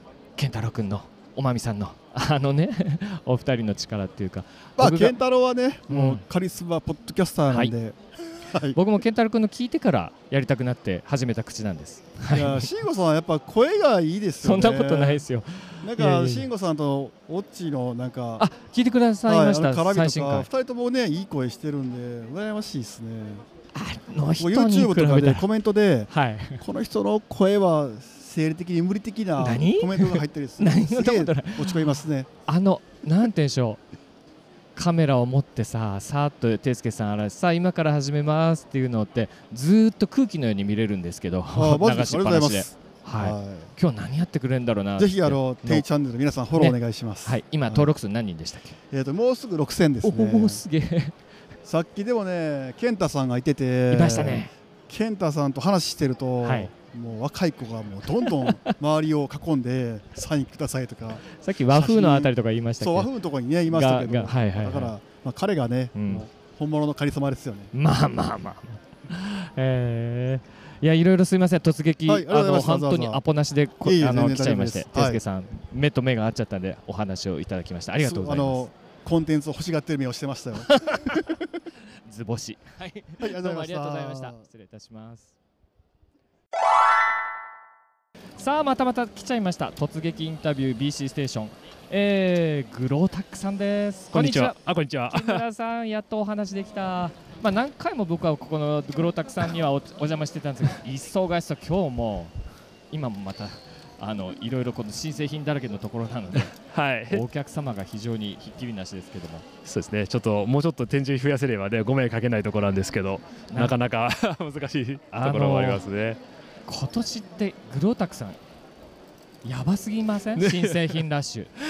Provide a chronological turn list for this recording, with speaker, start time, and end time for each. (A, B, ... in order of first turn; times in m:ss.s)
0:00.4-0:05.2 A
0:04.8-0:08.8 B
0:05.9-0:06.2 A
0:08.7-0:12.7 A
0:12.3-0:15.2 B
0:14.4-0:16.5 A
0:15.8-0:18.4 B
0:18.4-0:20.5 A
0:19.3-0:23.4 B
0:23.7-0:25.5 A
0:24.4-0:32.3 B
0:26.1-0:26.6 A
0:29.4-0:33.8 A
0:34.7-0:45.8 A
0:41.5-0:43.7 B
0:45.0-0:47.9 B
0:46.6-0:48.8 A
0:48.9-0:50.6 B
0:50.0-0:51.1 A
0:51.6-1:07.7 B
0:53.9-0:54.5 A
0:56.4-0:56.7 A
0:58.2-0:58.7 A
1:01.3-1:03.1 A
1:03.6-1:04.9 A
1:05.9-1:06.2 A
1:07.7-1:18.7 A
1:12.1-1:13.2 B
1:13.8-1:15.2 B
1:18.0-1:21.3 B
1:20.7-1:21.1 A
1:22.0-1:25.3 A
1:23.2-1:24.4 B
1:28.4-1:34.6 A
1:34.1-1:35.4 C
1:35.1-1:42.3 A
1:42.9-1:46.5 A
1:46.6-1:47.2 C
1:47.1-1:49.4 A
1:49.6-1:56.2 C
1:55.1-1:55.8 A
1:56.6-1:58.4 A
1:59.4-2:01.5 A
2:00.4-2:01.0 C